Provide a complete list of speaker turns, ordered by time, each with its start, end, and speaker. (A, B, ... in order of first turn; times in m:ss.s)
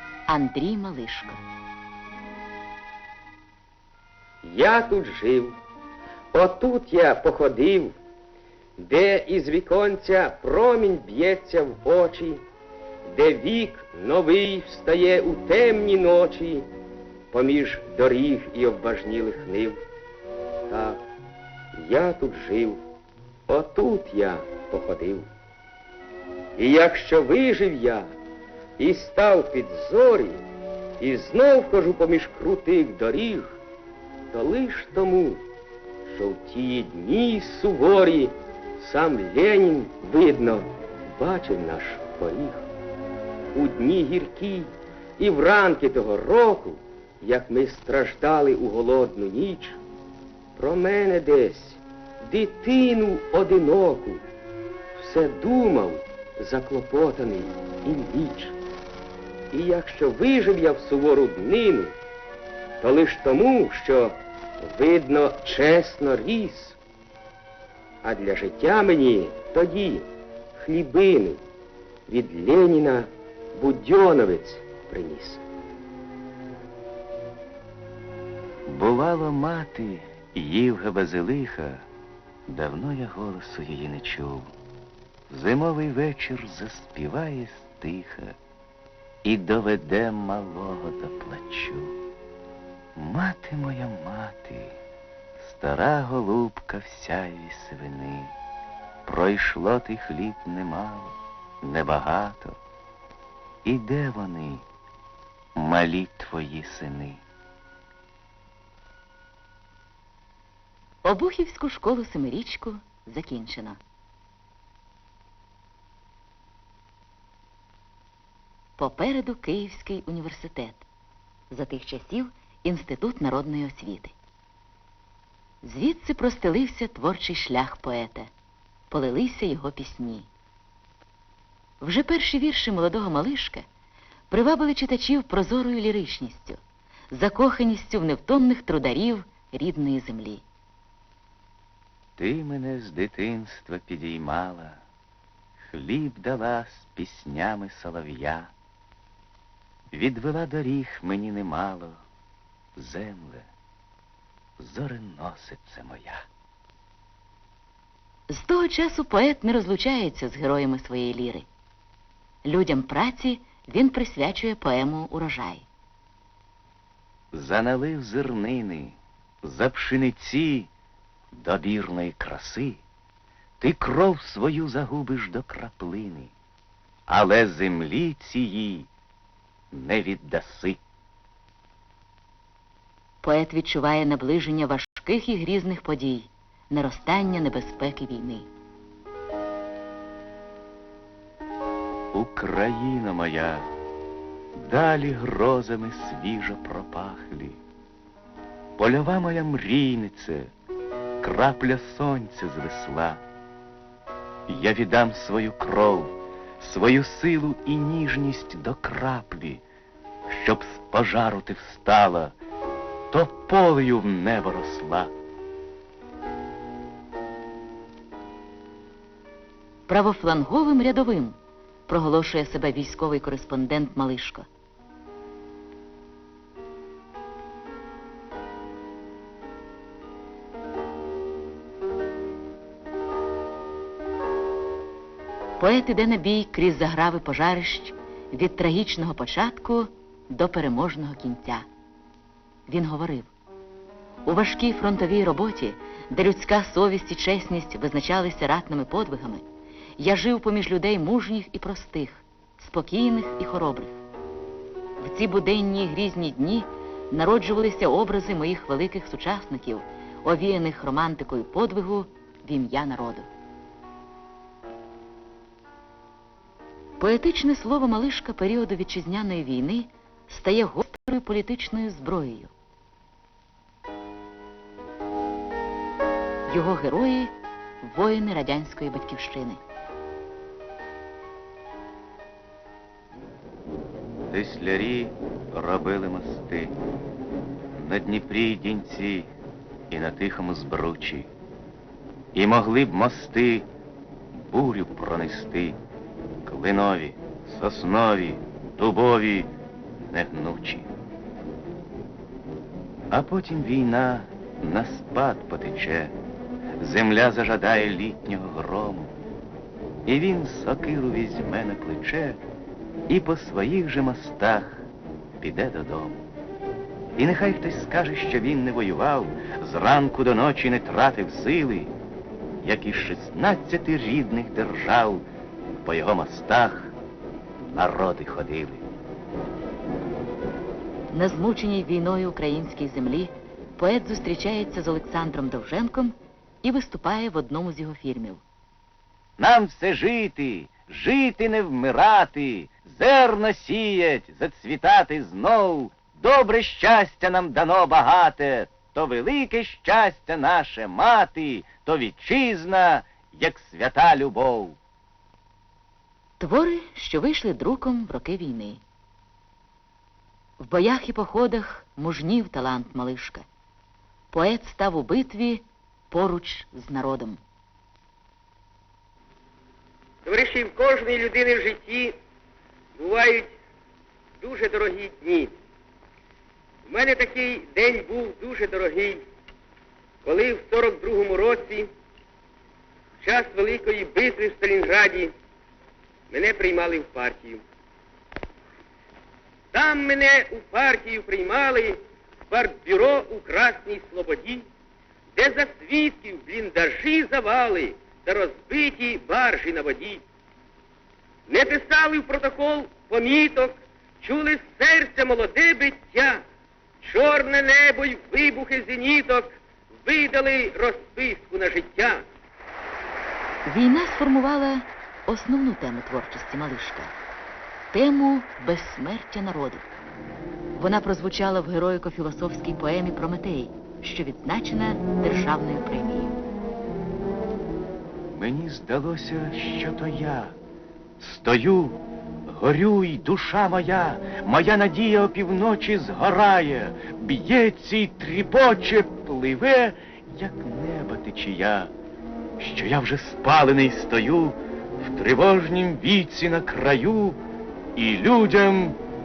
0:00.3-0:01.4 A
0:04.4-0:05.6 B
0:06.3-0:08.0 B
0:08.8-0:12.4 B
0:13.1-0:16.7 B
0:17.3-0:19.8 B
0:20.7-0:21.0 B
0:21.7-0:22.8 B
0:23.5-0:25.3 B
0:26.6-0:28.1 B
0:28.8-0:30.4 B
0:31.0-0:33.6 B
0:34.3-0:35.4 B
0:36.0-0:42.7 B
0:43.5-0:49.8 B
0:50.6-0:54.2 B
0:55.0-0:58.6 B
0:59.5-1:01.9 B
1:02.8-1:06.8 B
1:08.0-1:11.4 B
1:12.1-1:15.4 B
1:18.7-1:21.8 C
1:22.5-1:24.5 C
1:25.3-1:28.4 C
1:29.2-1:31.9 C
1:33.0-1:34.8 C
1:35.4-1:38.3 C
1:39.0-1:42.6 C
1:43.6-1:44.6 C
1:45.6-1:47.2 C
1:51.0-1:53.8 A
1:58.8-2:00.9 A
2:01.5-2:04.1 A
2:05.6-2:08.3 A
2:08.9-2:10.3 A
2:11.8-2:13.6 A
2:14.3-2:16.6 A
2:17.1-2:20.4 A
2:22.2-2:24.8 C
2:25.7-2:28.5 C
2:29.9-2:32.0 C
2:32.8-2:33.5 C
2:34.6-2:36.2 C
2:38.3-2:41.5 A
2:42.4-2:45.6 A
2:47.3-2:50.7 C
2:51.3-2:52.8 C
2:53.6-2:56.3 C
2:57.1-2:58.9 C
2:59.7-3:00.8 C
3:03.2-3:08.5 A
3:12.1-3:13.7 C
3:14.6-3:17.6 C
3:18.8-3:20.5 C
3:21.2-3:23.2 C
3:24.5-3:29.6 C
3:30.3-3:32.4 C
3:33.1-3:35.1 C
3:39.9-3:44.4 A
3:55.6-4:01.6 A
4:02.7-4:03.3 A
4:04.2-4:09.4 A
4:10.0-4:14.0 A
4:15.0-4:23.3 A
4:27.0-4:32.5 A
4:36.5-4:37.3 A
4:37.8-4:39.6 A
4:44.3-4:46.8 C
4:47.8-4:49.3 C
4:49.9-4:51.3 C
4:52.3-4:53.7 C
4:54.3-4:55.8 C
4:56.4-4:59.5 C
5:00.1-5:00.9 C
5:03.1-5:06.2 C
5:06.8-5:09.1 C
5:10.0-5:12.4 C
5:13.1-5:14.9 C
5:15.4-5:16.3 C
5:17.2-5:21.9 C
5:22.6-5:26.9 C
5:27.7-5:28.9 C
5:31.1-5:38.4 A
5:39.4-5:54.8 C
5:56.4-5:58.8 A
6:00.6-6:03.4 A
6:04.3-6:07.4 A
6:10.2-6:12.2 B
6:13.0-6:13.5 B
6:14.4-6:15.5 B
6:16.8-6:19.2 B
6:20.2-6:21.9 B
6:23.2-6:25.3 B
6:26.3-6:27.6 B
6:29.7-6:34.7 B
6:35.4-6:40.2 B
6:41.5-6:46.4 B
6:47.0-6:52.2 B
6:53.6-6:57.1 A
6:57.9-6:59.8 A
7:00.8-7:06.4 A
7:08.3-7:10.6 C
7:11.2-7:21.9 C
7:22.6-7:27.4 C
7:28.0-7:29.0 C